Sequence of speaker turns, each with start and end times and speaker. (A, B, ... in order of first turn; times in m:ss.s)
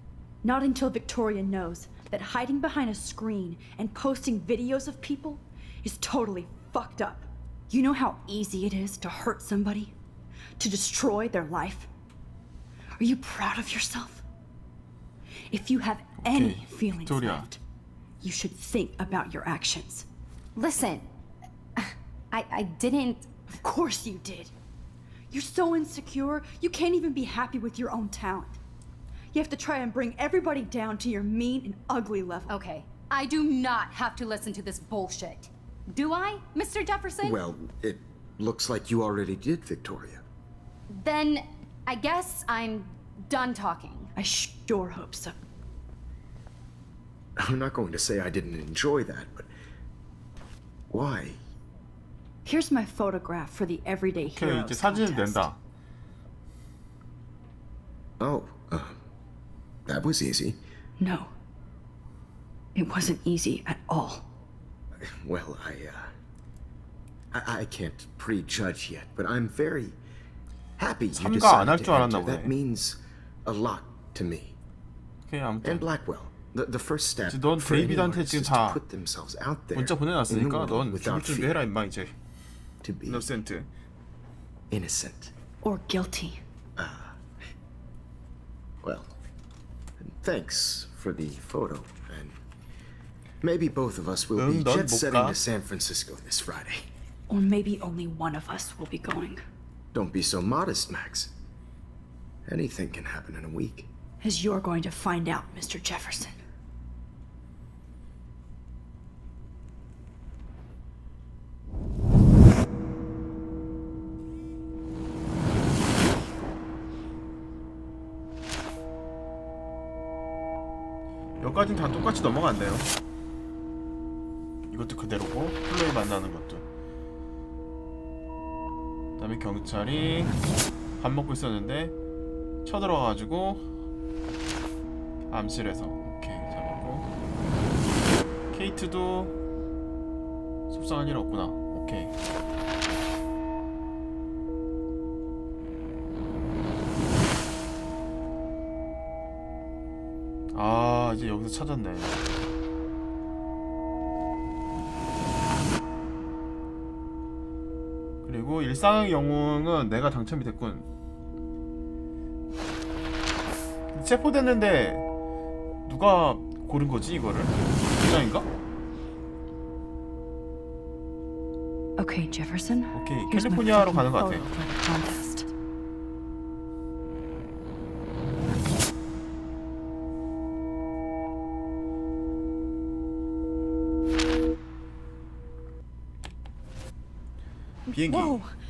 0:00.4-0:09.9 A
0:10.6-0:11.9 A
0:13.0-0:14.2 A
0:15.5-0:17.6 A
0:16.2-0:17.5 B
0:18.2-0:20.1 A
0:20.6-0:21.1 C
0:21.8-0:23.4 C
0:23.5-0:24.5 A
0:25.3-0:28.6 A
0:29.3-0:32.5 A
0:32.5-0:37.4 C
0:37.2-0:40.2 D
0:40.9-0:44.1 C
0:44.1-0:45.4 A
0:47.4-0:49.5 D
0:50.9-0:51.4 D
0:52.4-0:55.5 A
0:54.3-0:55.6 B
0:58.2-0:59.0 D
0:59.8-1:00.6 D
1:01.0-1:01.3 A
1:02.7-1:04.3 A
1:05.0-1:06.1 D
1:07.3-1:10.0 D
1:10.8-1:14.6 D
1:11.1-1:12.5 B
1:15.3-1:15.8 B
1:15.6-1:21.6 D
1:17.3-1:18.8 B
1:19.7-1:22.1 B
1:22.8-1:23.3 D
1:23.0-1:23.7 B
1:24.7-1:25.3 D
1:25.6-1:26.4 A
1:26.8-1:27.2 D
1:28.8-1:29.1 D
1:30.0-1:32.4 D
1:33.4-1:36.9 D
1:34.4-1:35.4 B
1:37.3-1:39.4 A
1:39.9-1:41.3 D
1:42.4-1:43.9 D
1:44.2-1:46.4 A
2:01.4-2:02.9 B
2:04.7-2:06.6 B
2:09.2-2:10.3 B
2:11.0-2:11.9 B
2:12.6-2:13.6 B
2:15.3-2:17.0 B
2:18.5-2:19.3 B
2:20.7-2:22.1 B
2:30.5-2:32.2 B
2:38.2-2:40.9 B
2:43.9-2:45.0 B
2:45.9-2:48.5 B
2:52.0-2:55.5 A
2:52.9-2:54.4 B
3:07.8-3:08.5 A
3:07.9-3:08.4 B